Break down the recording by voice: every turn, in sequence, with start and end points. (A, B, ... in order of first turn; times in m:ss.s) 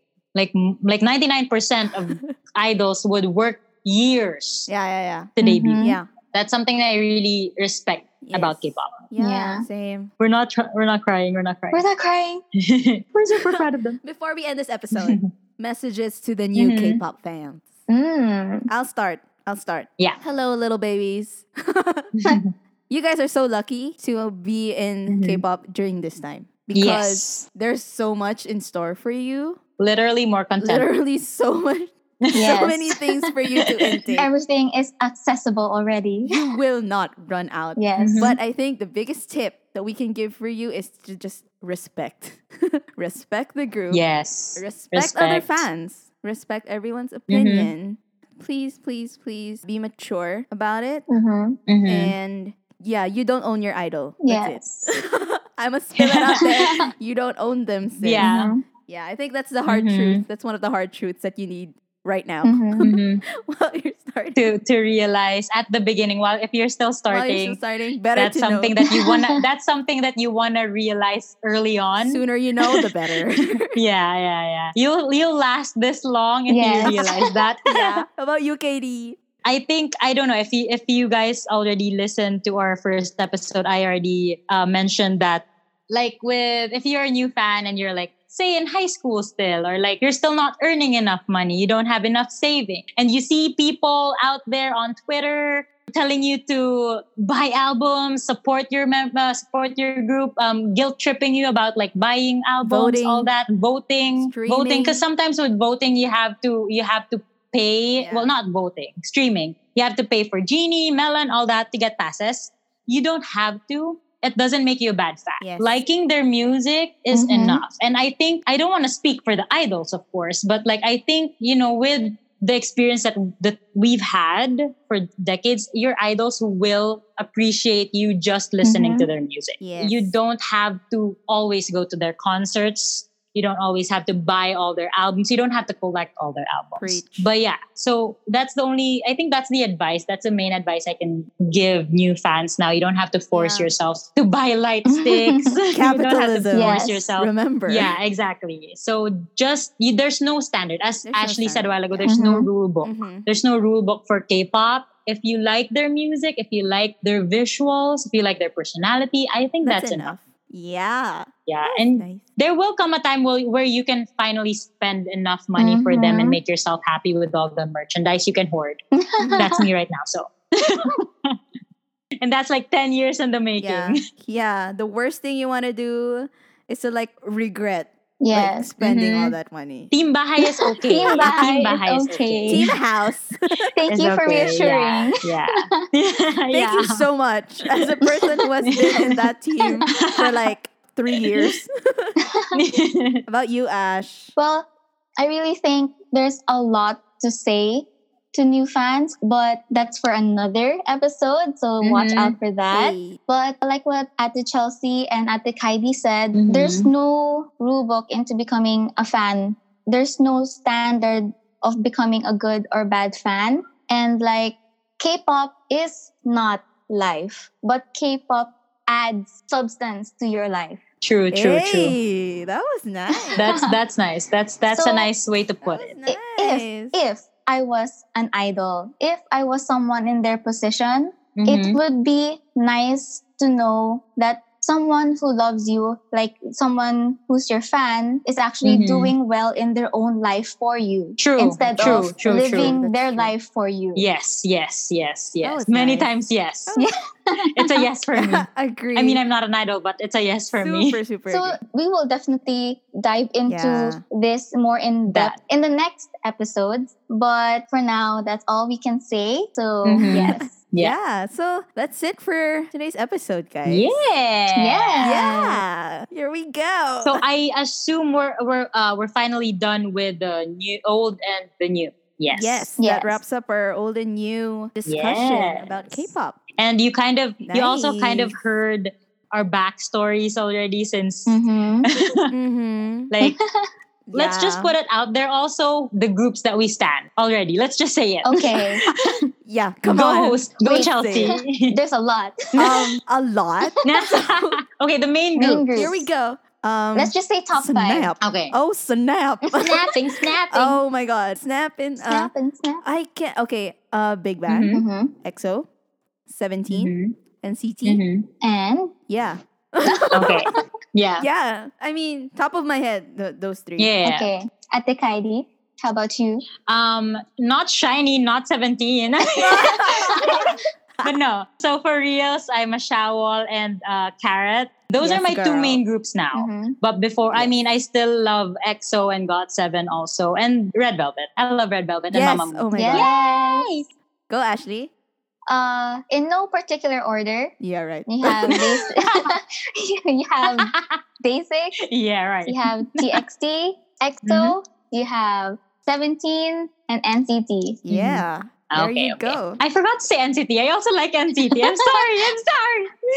0:00.3-0:04.7 A
0:02.0-0:02.3 B
0:04.7-0:06.1 B
0:05.4-0:09.0 A
0:05.4-0:06.0 C
0:08.2-0:10.1 B
0:09.2-0:09.7 C
0:10.2-0:11.9 A
0:11.7-0:12.4 C
0:12.7-0:14.0 A
0:13.3-0:17.7 B
0:14.9-0:15.3 A
0:16.6-0:17.0 A
0:17.9-0:18.7 C
0:18.7-0:22.1 B
0:22.2-0:22.5 A
0:22.9-0:29.6 B
0:25.1-0:25.4 A
0:26.7-0:27.4 A
0:29.8-0:30.9 A
0:30.6-0:34.3 B
0:32.3-0:33.0 C
0:33.6-0:34.0 A
0:34.2-0:36.5 C
0:36.3-0:44.0 B
0:37.8-0:38.3 C
0:38.0-0:38.4 A
0:43.9-0:45.6 A
0:44.6-0:51.1 B
0:47.3-0:47.7 A
0:51.1-0:51.6 C
0:51.7-0:52.1 A
0:51.9-1:04.5 B
0:54.2-0:54.9 C
0:56.0-0:56.4 A
0:56.4-0:56.7 C
0:58.0-0:58.5 A
0:58.2-0:58.6 C
0:59.6-1:00.2 A
1:02.4-1:02.8 C
1:02.8-1:03.2 A
1:04.4-1:07.6 A
1:07.1-1:08.8 B
1:08.2-1:12.8 A
1:08.8-1:09.4 C
1:12.0-1:13.7 B
1:13.7-1:18.0 A
1:16.5-1:17.3 C
1:16.8-1:19.2 B
1:19.4-2:40.1 A
1:42.6-1:43.3 B
1:44.2-1:45.0 B
1:48.0-1:48.3 B
1:55.4-1:55.7 B
1:57.1-1:57.6 C
2:08.6-2:09.1 C
2:09.6-2:10.2 B
2:16.8-2:17.3 B
2:23.3-2:23.7 B
2:24.8-2:25.6 C
2:25.7-2:27.9 B
2:26.5-2:27.1 C
2:31.0-2:32.2 B
2:32.0-2:32.5 C
2:32.8-2:33.3 B
2:39.6-2:42.3 B
2:41.5-2:48.8 A
2:45.6-2:46.4 C
2:49.0-2:49.6 C
2:49.2-2:49.5 B
2:49.4-2:51.3 A
2:52.2-2:54.0 A
2:53.6-2:59.9 B
2:58.2-2:58.7 C
2:58.8-2:59.3 A
2:59.9-3:02.7 A
3:00.4-3:02.7 C
3:01.0-3:01.4 B
3:02.5-3:03.7 B
3:03.7-3:05.1 C
3:03.9-3:07.0 A
3:06.5-3:12.2 B
3:08.7-3:09.2 A
3:09.8-3:10.4 A
3:12.5-3:13.2 A
3:13.3-3:14.3 B
3:14.4-3:40.8 C
3:21.8-3:22.4 A
3:22.7-3:23.2 B
3:26.3-3:26.9 A
3:41.0-3:42.0 A
3:41.3-3:43.4 B
3:43.2-3:43.7 C
3:43.4-3:46.0 A
3:44.7-3:45.1 C
3:45.6-3:47.0 B
3:46.0-4:04.0 C
3:51.4-3:51.8 A
3:58.6-3:59.1 A
4:01.2-4:02.8 A
4:01.8-4:03.3 B
4:04.0-4:06.7 A
4:05.4-4:06.1 B
4:07.5-4:11.0 A
4:08.2-4:09.2 B
4:10.5-4:11.6 B
4:11.3-4:20.5 C
4:13.5-4:14.0 B
4:15.1-4:15.4 A
4:19.8-4:20.9 A
4:20.1-4:24.0 B
4:23.6-4:25.1 A
4:24.6-4:25.6 C
4:25.0-4:27.2 B
4:27.0-4:32.7 A
4:32.3-4:36.4 B
4:32.8-4:33.2 C
4:34.8-4:42.3 A
4:37.4-4:38.4 B
4:41.3-4:41.9 C
4:42.3-4:43.1 B
4:43.1-4:43.4 A
4:43.2-4:43.7 C
4:44.1-4:44.7 B
4:44.1-4:49.2 A
4:48.2-4:48.8 C
4:49.4-4:51.3 B
4:49.9-4:51.8 A
4:50.6-4:52.8 C
4:52.6-4:54.6 B
4:53.8-4:56.0 A
4:55.4-4:56.1 C
4:55.7-4:59.8 B
4:56.9-4:58.1 C
4:58.2-4:58.6 A
4:59.6-5:00.8 A
5:00.5-5:02.3 B
5:02.0-5:02.8 C
5:02.8-5:05.7 B
5:04.5-5:04.8 A
5:04.7-5:05.1 C
5:06.2-5:08.0 B
5:06.7-5:07.2 A
5:07.8-5:08.2 A
5:08.4-5:08.9 C
5:09.1-5:10.4 B
5:09.8-5:10.6 C
5:10.1-5:11.3 A
5:11.2-5:13.9 B
5:13.8-5:14.3 A
5:14.0-5:16.4 C
5:16.7-5:20.4 A
5:19.4-5:20.6 C
5:19.6-5:20.4 B
5:21.0-5:33.9 A
5:25.0-5:25.8 B
5:26.3-5:26.8 C
5:32.1-5:33.1 B
5:32.7-5:33.7 C
5:34.3-5:34.9 B
5:35.5-5:37.5 C
5:37.6-5:38.6 B
5:38.0-5:40.7 C
5:38.2-5:39.3 A
5:40.5-5:41.0 A
5:41.2-5:41.8 C
5:41.9-5:43.1 A
5:42.4-5:47.8 C
5:44.2-5:44.5 A
5:47.8-5:49.6 B
5:47.9-5:52.9 A
5:51.4-5:52.0 C